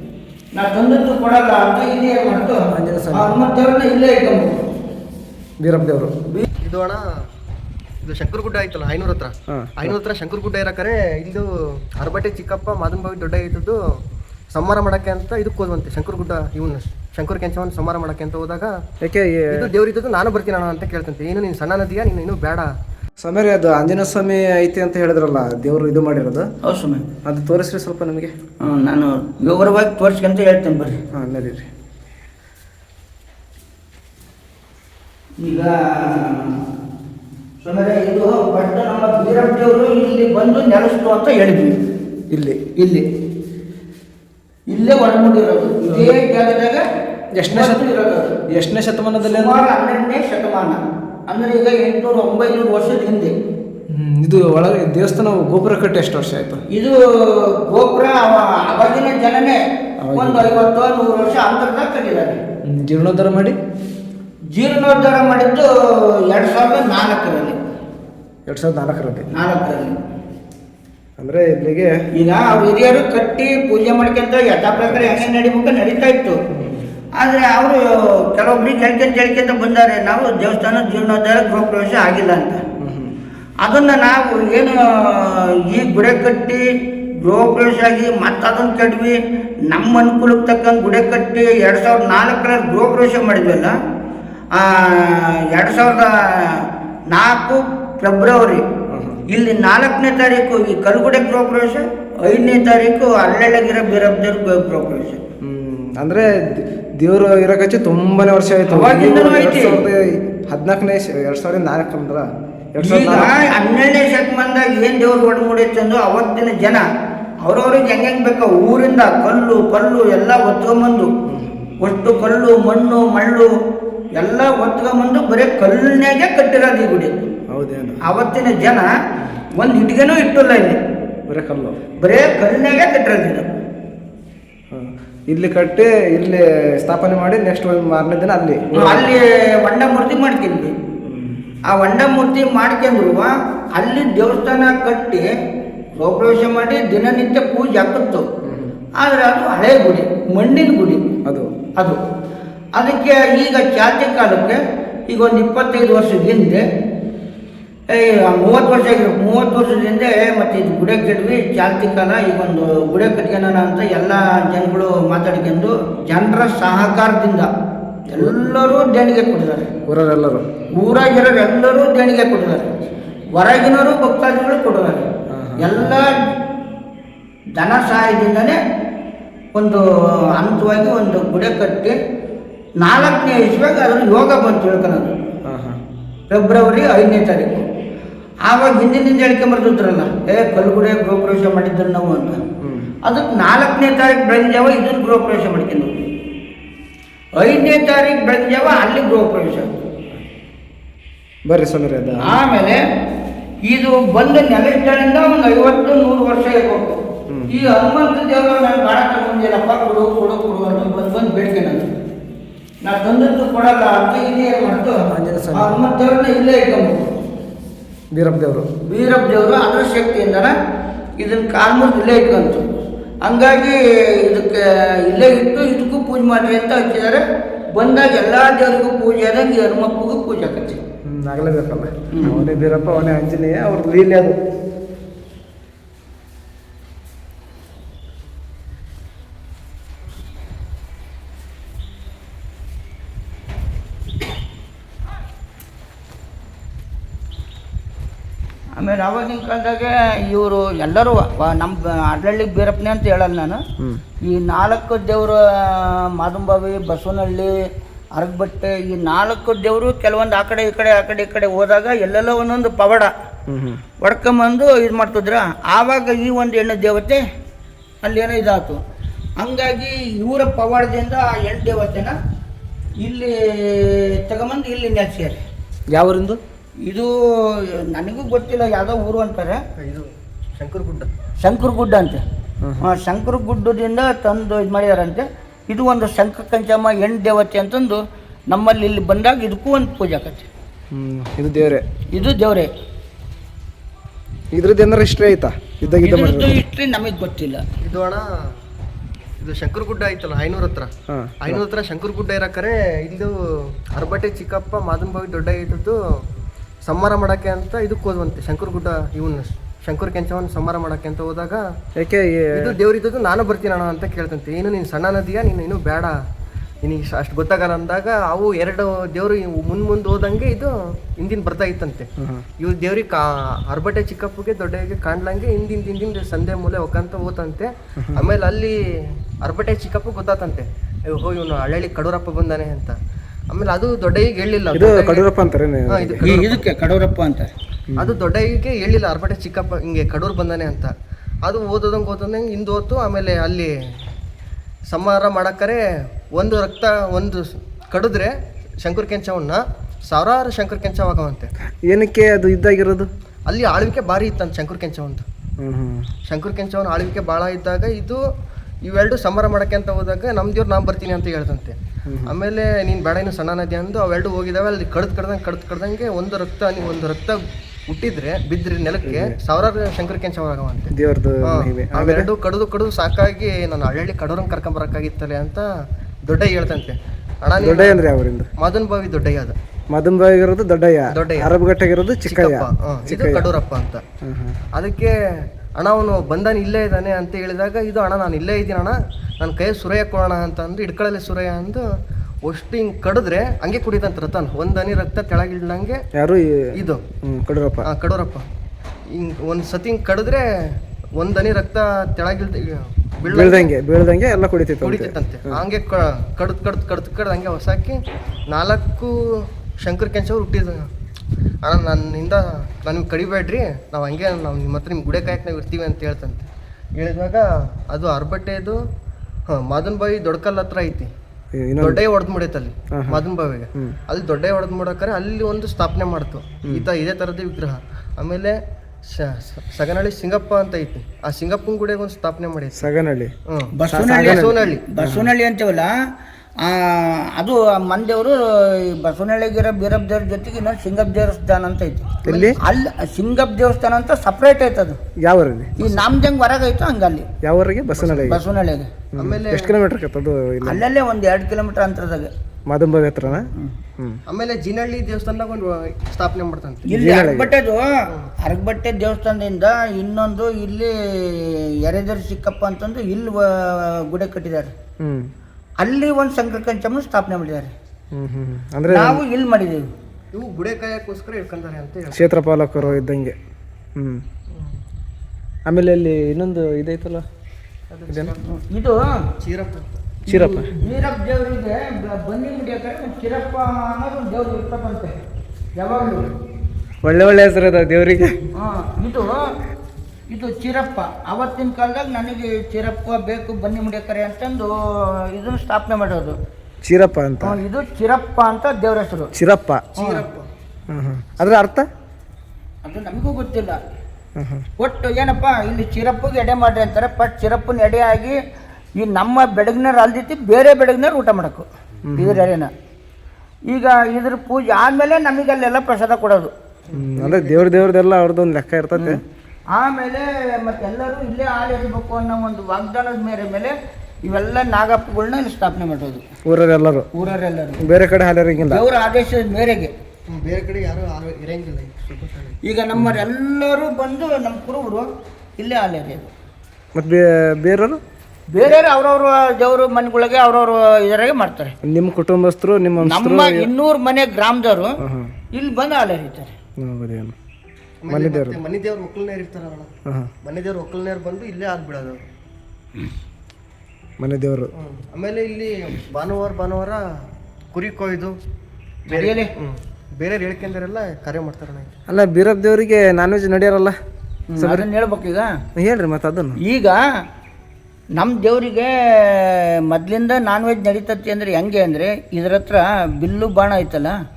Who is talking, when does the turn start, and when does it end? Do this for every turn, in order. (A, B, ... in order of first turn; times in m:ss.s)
0:00.6-0:02.6 A
0:02.7-0:03.3 B
0:03.1-0:04.6 A
0:05.6-0:06.1 B
0:06.6-0:07.0 C
0:08.0-0:11.5 C
0:09.5-0:09.9 B
0:12.0-0:13.8 C
0:14.5-0:18.7 C
0:19.0-0:19.7 B
0:19.5-0:22.7 C
0:23.2-0:26.5 B
0:26.6-0:27.0 A
0:27.2-0:28.3 B
0:28.6-0:31.0 A
0:31.1-0:31.7 B
0:35.4-0:36.6 A
0:37.6-0:41.8 A
0:42.3-0:42.6 B
0:42.8-0:43.0 A
0:44.7-0:46.8 A
0:45.8-0:46.2 B
0:47.4-0:47.8 B
0:47.5-0:48.4 A
0:48.5-0:49.6 B
0:49.2-0:53.3 A
0:53.9-0:56.6 B
0:56.7-0:59.6 A
1:00.0-1:00.5 B
1:00.1-1:02.4 A
1:02.7-1:03.6 B
1:04.5-1:07.6 A
1:08.5-1:09.3 B
1:09.3-1:10.0 A
1:11.2-1:12.0 B
1:12.1-1:16.4 A
1:14.8-1:15.3 B
1:16.5-1:16.8 B
1:17.2-1:22.6 A
1:22.8-1:23.1 B
1:23.6-1:26.6 A
1:27.2-1:29.2 A
1:29.7-1:33.7 A
1:34.6-1:38.6 A
1:38.9-1:39.2 B
1:39.3-1:45.2 A
1:45.4-1:53.4 B
1:48.7-1:49.8 A
1:52.8-1:56.8 A
1:57.4-2:01.1 A
2:01.3-2:01.6 B
2:01.8-2:03.5 A
2:04.2-2:07.1 A
2:07.5-2:08.0 B
2:08.0-2:08.9 A
2:09.6-2:10.8 A
2:11.3-2:11.8 B
2:12.0-2:13.4 A
2:14.7-2:19.2 B
2:18.8-2:20.7 A
2:21.0-2:21.5 B
2:21.7-2:25.3 A
2:26.0-2:28.2 A
2:28.4-2:28.7 B
2:29.0-2:31.0 A
2:31.2-2:31.5 B
2:32.8-2:36.6 A
2:37.9-2:47.5 A
2:48.1-2:48.6 B
2:48.2-2:49.7 A
2:49.9-2:50.4 B
2:50.8-2:52.8 A
2:53.4-2:55.1 A
2:55.3-2:55.9 B
2:55.6-2:56.2 A
2:57.6-2:58.6 A
2:59.5-3:02.0 A
3:02.8-3:05.1 A
3:05.5-3:05.8 B
3:06.3-3:07.6 A
3:08.4-3:12.4 A
3:12.6-3:12.9 B
3:13.0-3:16.0 A
3:17.4-3:19.7 A
3:21.5-3:22.4 B
3:22.2-3:22.8 A
3:23.7-3:26.9 A
3:27.3-3:27.6 B
3:27.5-3:31.8 A
3:32.8-3:35.0 A
3:35.1-3:35.8 B
3:35.5-3:37.1 A
3:38.1-3:38.7 B
3:38.8-3:40.6 A
3:41.2-3:42.7 A
3:43.2-3:47.2 A
3:47.8-3:50.8 A
3:51.0-3:54.4 B
3:52.1-3:52.4 A
4:08.8-4:13.6 A
4:14.2-4:17.5 A
4:18.2-4:23.1 A
4:23.5-4:23.8 B
4:24.0-4:27.2 A
4:28.0-4:28.8 A
4:29.4-4:32.2 A
4:33.0-4:35.4 A
4:35.9-4:36.4 B
4:36.8-4:39.6 A
4:39.8-4:41.1 C
4:41.4-4:42.2 A
4:42.8-4:50.5 A
4:50.9-4:51.9 B
4:52.1-4:52.7 A
4:54.5-4:56.6 B
4:56.0-4:57.6 A
4:57.8-4:58.3 C
4:59.4-5:00.9 C
5:01.1-5:01.6 B
5:01.4-5:03.3 C
5:03.9-5:06.0 C
5:06.8-5:11.6 C
5:12.0-5:12.8 B
5:12.5-5:16.2 C
5:16.8-5:22.1 C
5:22.2-5:22.5 B
5:22.6-5:28.8 C
5:29.4-5:33.0 C
5:33.5-5:35.3 C
5:34.7-5:36.2 B
5:35.9-5:36.7 C
5:36.2-5:37.5 A
5:37.9-5:38.2 B
5:38.0-5:40.9 C
5:41.4-5:43.7 C
5:44.9-5:48.3 C
5:48.8-5:51.5 C
5:51.9-5:53.1 B
5:53.5-5:55.2 C
5:55.6-5:56.1 B
5:56.3-5:58.2 C
5:58.8-6:01.8 C
6:02.1-6:02.3 B
6:02.3-6:07.4 C
6:07.9-6:10.9 C
6:09.0-6:09.4 B
6:10.9-6:12.3 B
6:11.4-6:15.7 C
6:16.3-6:18.0 C
6:17.6-6:18.5 B
6:18.6-6:19.6 C
6:19.9-6:23.5 B
6:21.1-6:21.5 C
6:22.2-6:24.0 C
6:24.2-6:24.6 B
6:24.7-6:25.1 C
6:25.8-6:31.9 C
6:32.4-6:36.0 C
6:36.1-6:36.7 B
6:36.8-6:37.0 C
6:37.2-6:37.9 B
6:37.8-6:38.4 C
6:39.1-6:40.4 C
6:41.2-6:43.7 C
6:43.3-6:45.6 B
6:44.8-6:48.0 C
6:48.5-6:49.2 C
6:49.8-6:50.9 C
6:51.6-6:56.5 C
6:57.0-6:58.8 C
6:59.5-7:01.1 C
7:01.5-7:02.0 B
7:01.8-7:08.6 C
7:02.9-7:03.2 B
7:09.1-7:12.9 C
7:12.8-7:13.3 B
7:13.5-7:14.9 C
7:13.8-7:15.9 A
7:13.9-7:15.3 B
7:16.6-7:25.0 A
7:22.2-7:22.6 B
7:22.2-7:22.6 C
7:25.2-7:25.8 B
7:25.8-7:27.3 A
7:27.4-7:28.4 B
7:28.0-7:28.4 C
7:28.2-7:28.9 A
7:29.1-7:30.8 B
7:29.2-7:29.7 C
7:30.6-7:32.3 A
7:32.7-7:34.2 B
7:34.3-7:36.9 C
7:36.9-7:44.7 A
7:36.9-7:37.5 B
7:45.0-7:45.3 B
7:45.8-7:47.7 A
7:48.1-7:49.2 B
7:48.9-7:49.9 A
7:50.3-7:53.0 C
7:52.1-7:53.4 B
7:54.0-7:54.2 B
7:55.7-7:57.2 B
7:57.9-7:58.4 C
7:58.1-7:58.4 B
7:58.4-7:59.2 A
7:59.4-7:59.8 C
8:00.3-8:05.2 A
8:00.3-8:00.7 B
8:05.8-8:06.3 A
8:07.0-8:08.4 B
8:08.6-8:09.5 A
8:10.3-8:16.4 A
8:16.8-8:17.6 B
8:17.4-8:19.3 A
8:19.4-8:19.9 B
8:20.0-8:20.5 C
8:20.0-8:20.2 A
8:20.9-8:21.9 B
8:22.8-8:23.8 A
8:24.4-8:24.7 B
8:24.8-8:28.4 A
8:29.0-8:31.6 A
8:32.1-8:32.5 B
8:32.2-8:32.7 A
8:33.7-8:36.5 A
8:36.9-8:37.7 C
8:36.9-8:39.2 B
8:39.0-8:39.2 A
8:39.7-8:46.2 A
8:46.4-8:47.1 B
8:47.1-8:47.8 A
8:47.8-8:48.8 B
8:48.6-8:49.9 A
8:50.3-8:52.6 C
8:52.6-8:55.1 A
8:53.0-8:53.2 B
8:55.6-8:56.3 A
8:57.0-8:58.0 B
8:58.5-9:01.7 A
9:01.8-9:03.7 B
9:03.0-9:05.0 A
9:05.0-9:05.3 B
9:05.5-9:06.5 A
9:06.8-9:07.3 B
9:08.0-9:09.9 C
9:08.1-9:08.6 B
9:10.4-9:12.2 C
9:14.2-9:14.7 B
9:14.8-9:17.0 C
9:17.7-9:18.4 C
9:19.1-9:19.5 A
9:19.1-9:21.9 C
9:22.1-9:24.0 B
9:24.5-9:25.5 A
9:24.6-9:24.9 B
9:25.8-9:26.6 B
9:26.6-9:27.0 A
9:28.2-9:34.2 A